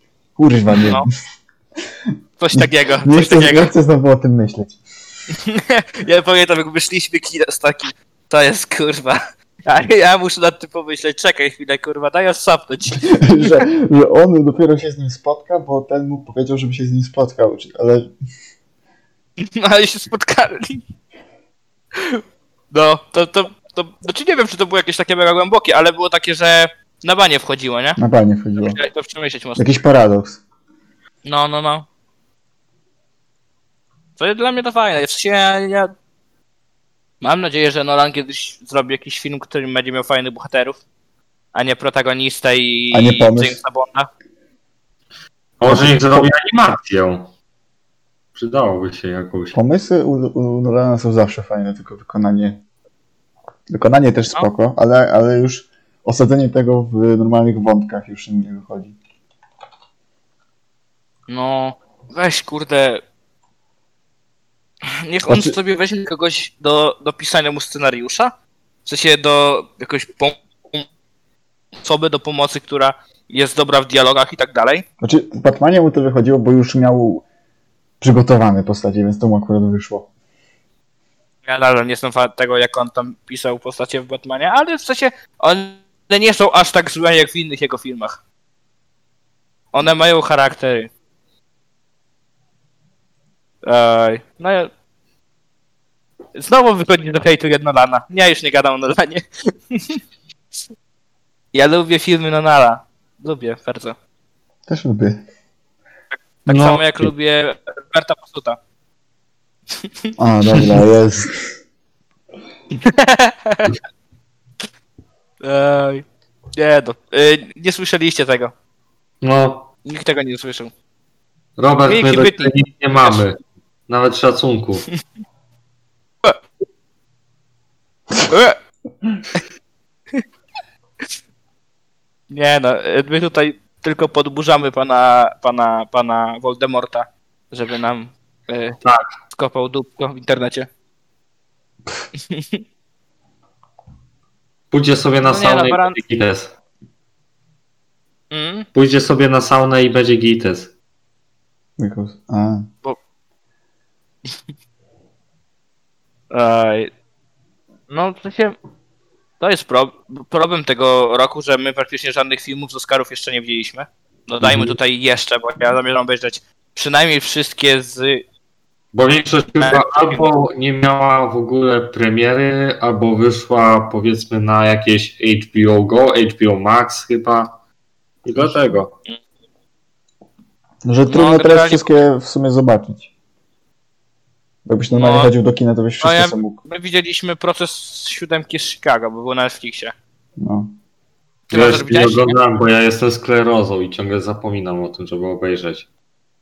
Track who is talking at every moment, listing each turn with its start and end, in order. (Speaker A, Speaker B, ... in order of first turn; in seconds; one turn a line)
Speaker A: 0.3-1.1
Speaker B: 0.7-1.1
Speaker B: 2.4-3.7
Speaker A: 2.5-4.8
Speaker B: 5.3-13.6
Speaker A: 13.0-18.1
Speaker B: 19.4-20.8
Speaker B: 22.0-28.0
Speaker A: 28.0-28.8
Speaker B: 28.6-29.8
Speaker A: 29.6-30.4
Speaker B: 31.2-31.9
Speaker B: 34.2-35.9
Speaker B: 37.2-40.8
Speaker B: 41.5-44.1
Speaker A: 42.9-43.6
Speaker C: 45.6-47.3
Speaker A: 45.6-46.3
Speaker C: 48.3-49.5
Speaker A: 49.5-52.6
Speaker A: 53.7-59.0
Speaker B: 61.3-63.0
Speaker B: 65.0-68.3
Speaker A: 65.3-65.5
Speaker B: 68.8-70.8
Speaker B: 71.8-74.8
Speaker A: 75.0-77.2
Speaker A: 78.0-80.1
Speaker B: 81.5-88.2
Speaker B: 89.7-90.9
Speaker B: 93.6-94.7
Speaker B: 96.3-100.0
Speaker B: 101.5-104.0
Speaker A: 104.7-105.2
Speaker B: 106.1-108.6
Speaker C: 106.5-107.1
Speaker A: 110.2-111.4
Speaker B: 112.7-113.7
Speaker B: 115.4-118.5
Speaker C: 119.2-119.7
Speaker B: 119.8-120.7
Speaker C: 121.6-124.8
Speaker B: 121.9-123.2
Speaker B: 128.3-128.6
Speaker B: 132.3-138.8
Speaker B: 139.3-140.7
Speaker B: 142.3-142.6
Speaker C: 144.7-146.5
Speaker B: 145.2-146.0
Speaker B: 148.3-148.7
Speaker C: 148.7-150.7
Speaker A: 151.8-152.7
Speaker B: 156.3-156.9
Speaker B: 157.9-158.6
Speaker B: 159.4-168.2
Speaker C: 168.9-177.6
Speaker B: 169.6-170.3
Speaker C: 178.2-178.9
Speaker A: 180.8-183.1
Speaker B: 181.1-181.9
Speaker A: 184.7-186.6
Speaker B: 184.9-185.3
Speaker B: 186.0-189.9
Speaker A: 190.4-190.7
Speaker B: 191.5-192.4
Speaker C: 191.5-195.9